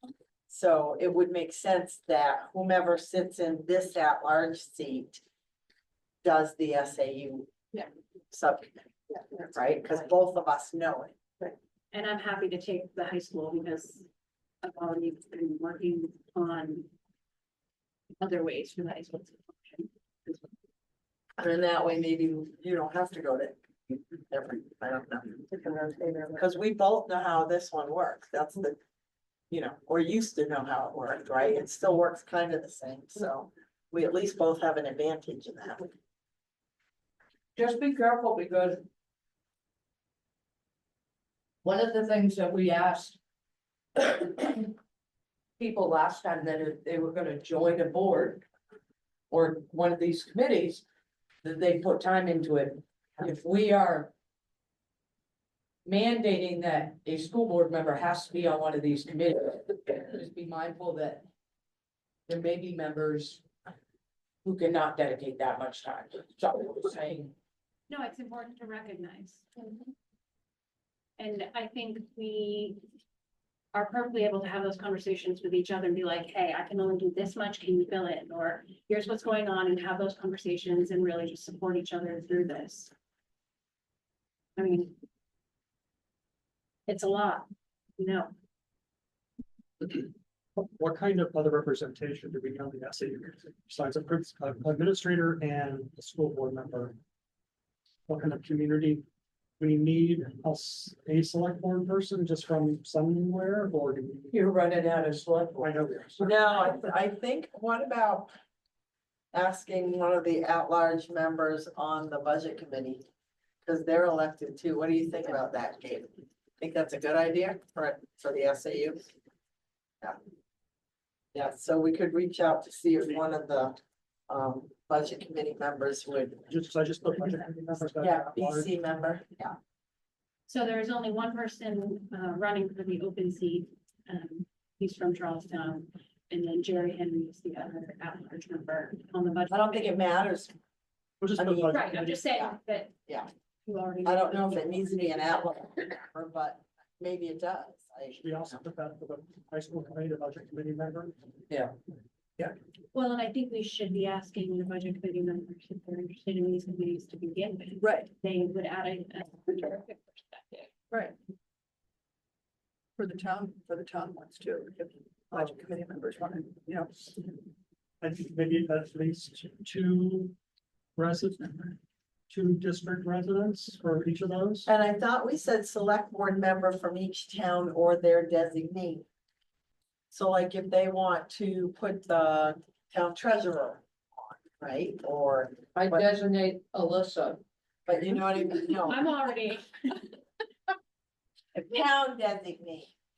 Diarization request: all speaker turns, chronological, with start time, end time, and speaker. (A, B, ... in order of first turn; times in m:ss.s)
0:00.5-0:05.2 A
0:06.2-0:07.5 A
0:08.3-0:11.2 A
0:11.9-0:14.1 B
0:14.6-0:16.9 B
0:18.2-0:20.4 B
0:21.4-0:25.5 A
0:25.5-0:26.3 C
0:26.4-0:28.8 A
0:29.5-0:35.9 A
0:37.6-0:38.8 D
0:41.6-0:43.2 D
0:44.0-0:44.7 D
0:45.6-0:48.5 D
0:49.3-0:50.8 D
0:51.4-0:54.1 D
0:55.8-1:01.3 D
1:02.3-1:03.4 D
1:04.4-1:07.3 D
1:07.9-1:09.8 B
1:11.2-1:12.8 B
1:13.7-1:22.9 B
1:24.6-1:25.0 B
1:26.9-1:28.3 B
1:29.8-1:37.0 E
1:38.1-1:39.0 E
1:39.6-1:44.3 E
1:44.3-1:45.8 D
1:45.6-1:46.4 E
1:46.2-1:48.3 A
1:49.3-1:53.0 A
1:53.6-1:59.1 A
2:01.3-2:03.8 A
2:04.3-2:06.4 A
2:06.5-2:08.7 E
2:08.0-2:09.6 A
2:10.5-2:20.1 B
2:19.5-2:20.5 A
2:21.2-2:22.2 E
2:21.4-2:23.3 A
2:21.7-2:23.0 B
2:23.6-2:25.7 B
2:24.0-2:28.6 A
2:28.1-2:31.2 E
2:31.5-2:31.7 D
2:32.9-2:40.7 B
2:43.0-2:47.0 C
2:48.0-2:50.4 E
2:51.0-2:51.8 E
2:52.3-2:54.7 E
2:54.7-2:59.0 A
3:00.1-3:06.0 A
3:05.7-3:07.4 D
3:07.9-3:09.1 A
3:08.8-3:10.2 B
3:11.5-3:12.9 A